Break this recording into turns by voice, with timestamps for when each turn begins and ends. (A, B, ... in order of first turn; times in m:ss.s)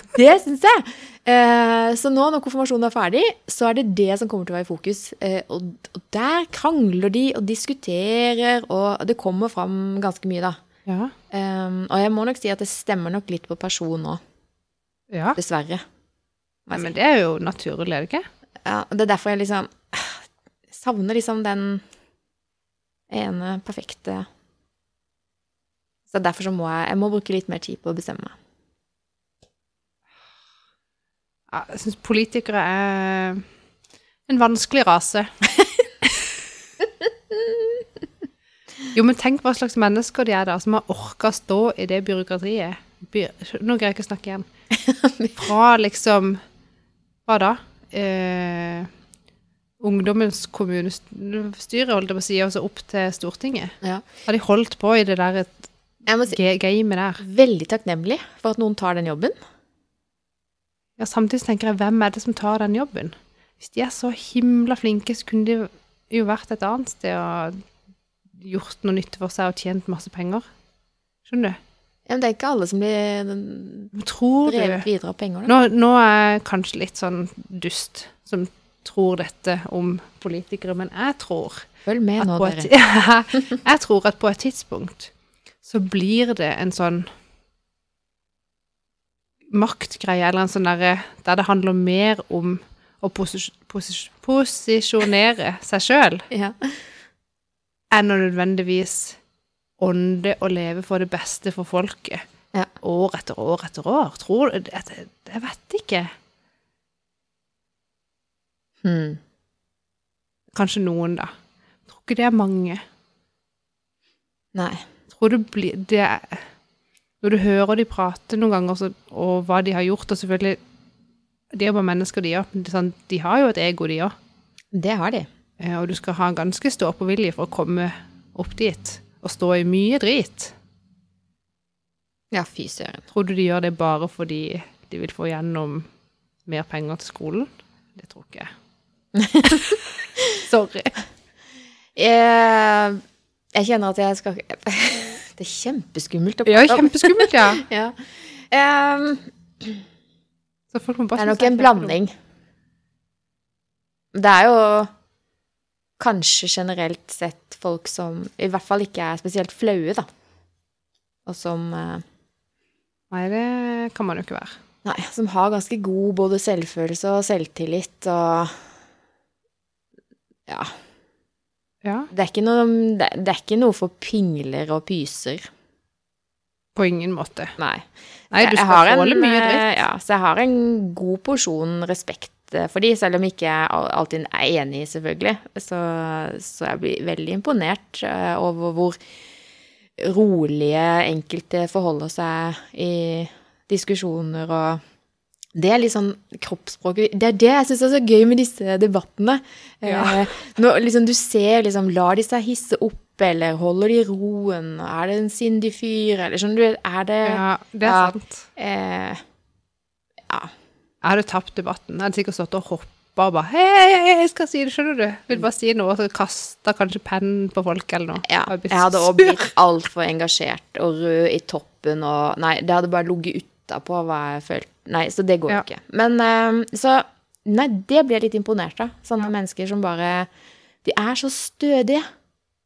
0:00.1-0:10.6 A
0:10.9-0:11.1 B
0:11.3-0:14.2 A
0:15.1-0:15.4 B
0:15.4-0:15.8 A
0:16.6-0:16.9 A
0:16.7-0:18.3 B
0:18.6-0:21.8 A
0:23.1-0:24.2 A
0:26.1-0:28.3 A
0:31.5-0:33.4 B
0:34.3-0:35.3 B
0:37.3-0:37.6 A
0:38.9-0:44.4 B
0:44.7-0:45.4 A
0:45.3-0:46.4 B
0:47.3-0:48.9 B
0:49.8-0:55.7 B
0:56.0-0:56.4 A
0:56.3-0:57.2 B
0:57.2-0:59.4 A
1:01.0-1:07.6 B
1:08.4-1:10.4 B
1:11.2-1:11.6 B
1:12.1-1:13.9 A
1:13.9-1:14.8 B
1:14.4-1:15.5 A
1:15.4-1:21.7 B
1:21.8-1:22.7 A
1:22.2-1:25.1 B
1:25.6-1:27.1 B
1:29.5-1:36.3 B
1:36.3-1:36.8 A
1:37.9-1:39.2 B
1:39.8-1:42.2 B
1:42.8-1:46.1 B
1:48.8-1:49.2 A
1:50.5-1:51.3 B
1:51.9-1:52.8 B
1:54.5-1:54.8 A
1:55.1-1:56.4 B
1:57.2-2:00.6 B
2:01.5-2:04.1 B
2:04.7-2:05.3 A
2:05.6-2:10.5 B
2:12.3-2:13.0 A
2:13.1-2:15.8 B
2:16.4-2:18.5 B
2:19.1-2:19.8 A
2:19.4-2:20.9 B
2:22.0-2:23.0 A
2:23.5-2:29.8 A
2:26.4-2:27.6 B
2:30.7-2:31.9 B
2:31.2-2:32.1 A
2:34.1-2:34.9 A
2:36.0-2:40.0 A
2:41.2-2:42.0 A
2:43.1-2:44.6 B
2:44.8-2:48.6 A
2:51.8-2:52.1 B
2:52.1-2:55.5 A
2:56.8-2:57.6 B
2:57.6-3:09.0 A
2:58.3-2:59.7 B
3:10.0-3:14.8 A
3:15.5-3:29.2 A
3:19.8-3:20.3 B
3:27.2-3:28.5 B
3:31.0-3:39.5 B
3:38.3-3:50.3 A
3:50.8-3:52.0 A